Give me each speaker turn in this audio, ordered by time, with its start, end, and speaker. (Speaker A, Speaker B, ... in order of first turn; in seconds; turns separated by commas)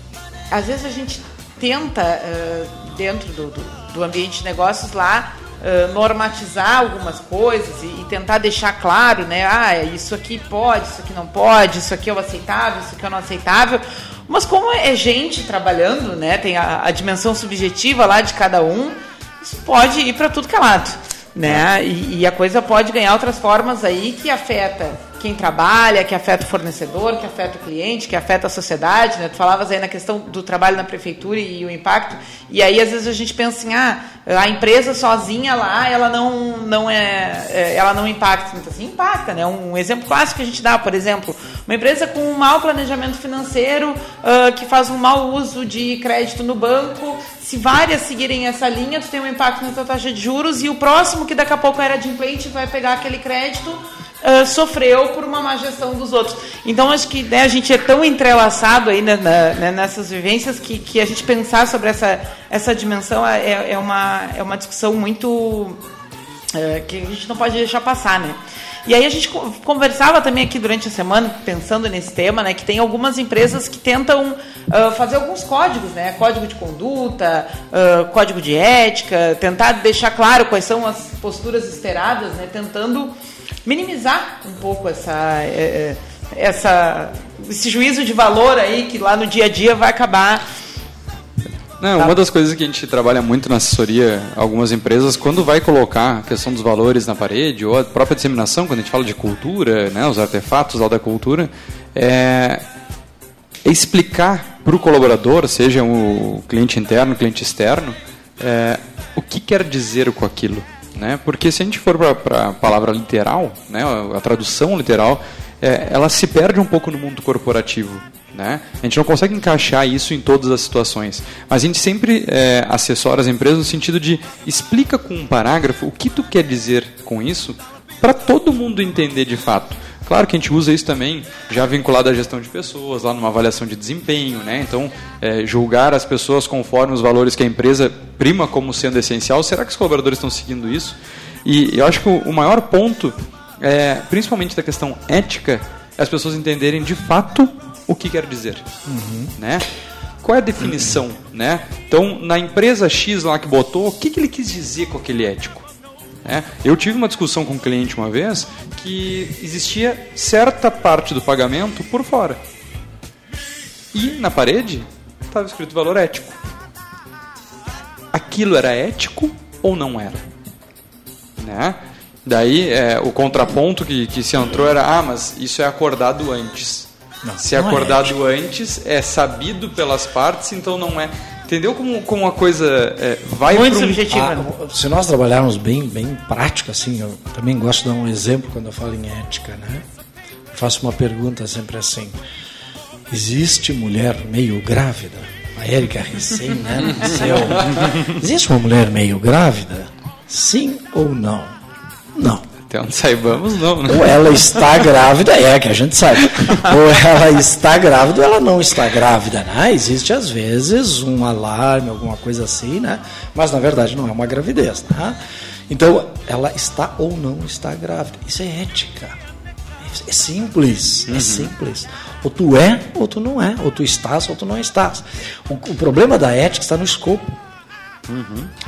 Speaker A: 0.5-65.8, Speaker A: 66.5-83.1, Speaker A: 83.7-90.4, Speaker B: 91.8-102.6, Speaker B: 103.7-148.7, Speaker C: 148.9-149.3, Speaker B: 149.4-149.7, Speaker B: 150.2-155.7, Speaker B: 156.2-162.4, Speaker B: 163.9-166.4, Speaker B: 168.1-170.2, Speaker B: 171.4-176.9, Speaker C: 177.2-178.1, Speaker B: 177.4-184.1, Speaker A: 183.4-184.5, Speaker C: 184.1-189.8, Speaker C: 190.5-192.2, Speaker C: 193.1-201.5, Speaker B: 197.4-197.8, Speaker C: 202.2-202.5, Speaker B: 202.7-204.6, Speaker C: 203.9-215.2, Speaker C: 215.7-219.2, Speaker C: 219.8-227.4, Speaker B: 221.1-221.5, Speaker B: 228.1-228.5